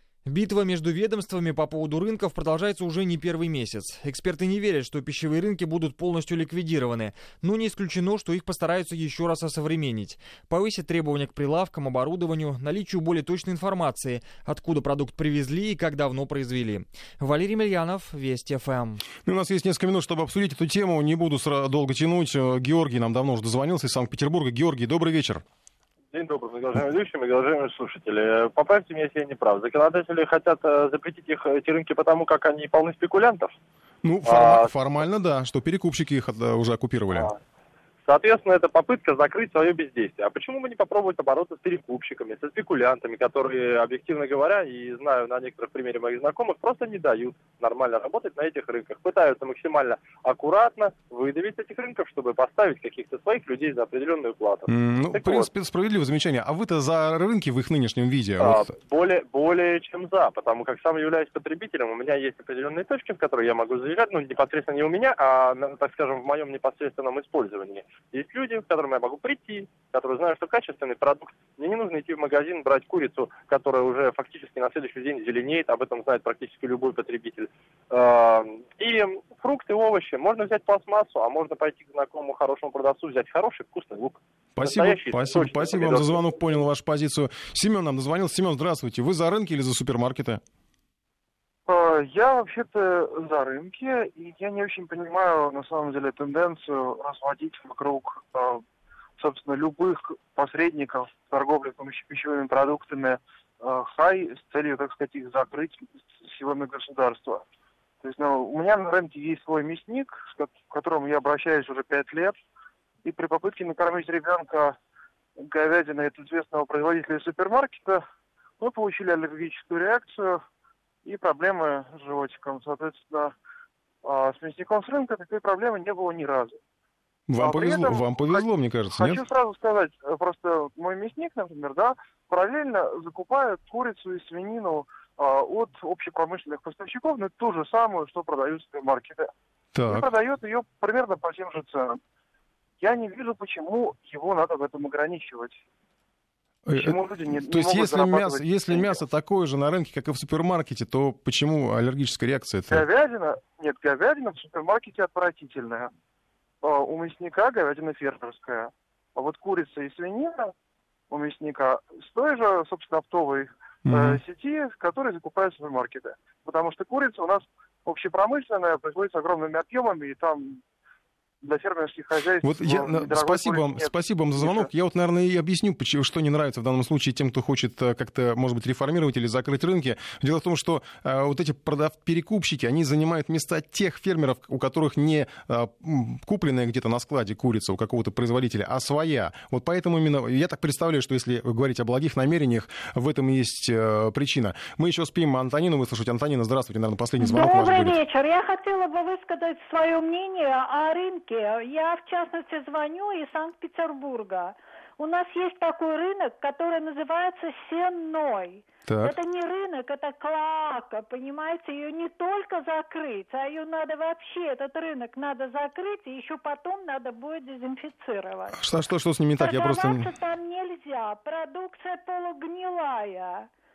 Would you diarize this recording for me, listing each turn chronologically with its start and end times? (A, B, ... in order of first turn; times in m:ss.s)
0:00.3-0:19.0 A
0:19.2-0:25.4 B
0:26.1-0:33.6 C
0:34.0-0:37.3 B
0:34.3-0:34.7 C
0:38.1-0:55.5 C
0:54.7-0:58.7 B
0:58.4-1:26.4 C
1:24.6-1:30.4 B
1:31.7-1:38.6 D
1:39.2-1:47.4 D
1:48.0-1:52.4 D
1:53.0-1:54.8 D
1:55.4-1:58.0 D
1:58.6-2:00.4 D
2:01.0-2:03.3 D
2:04.0-2:06.6 D
2:07.3-2:09.2 B
2:07.4-2:19.3 D
2:19.7-2:20.1 B
2:19.9-2:22.0 D
2:22.8-2:25.6 D
2:26.7-2:32.9 B
2:26.7-2:29.0 D
2:32.7-2:35.9 D
2:36.6-2:40.5 D
2:41.1-2:50.6 D
2:43.8-2:44.2 B
2:51.4-2:54.7 D
2:52.4-3:18.0 B
3:17.2-3:38.6 E
3:28.9-3:29.2 B
3:38.5-3:40.1 B
3:39.4-3:43.5 E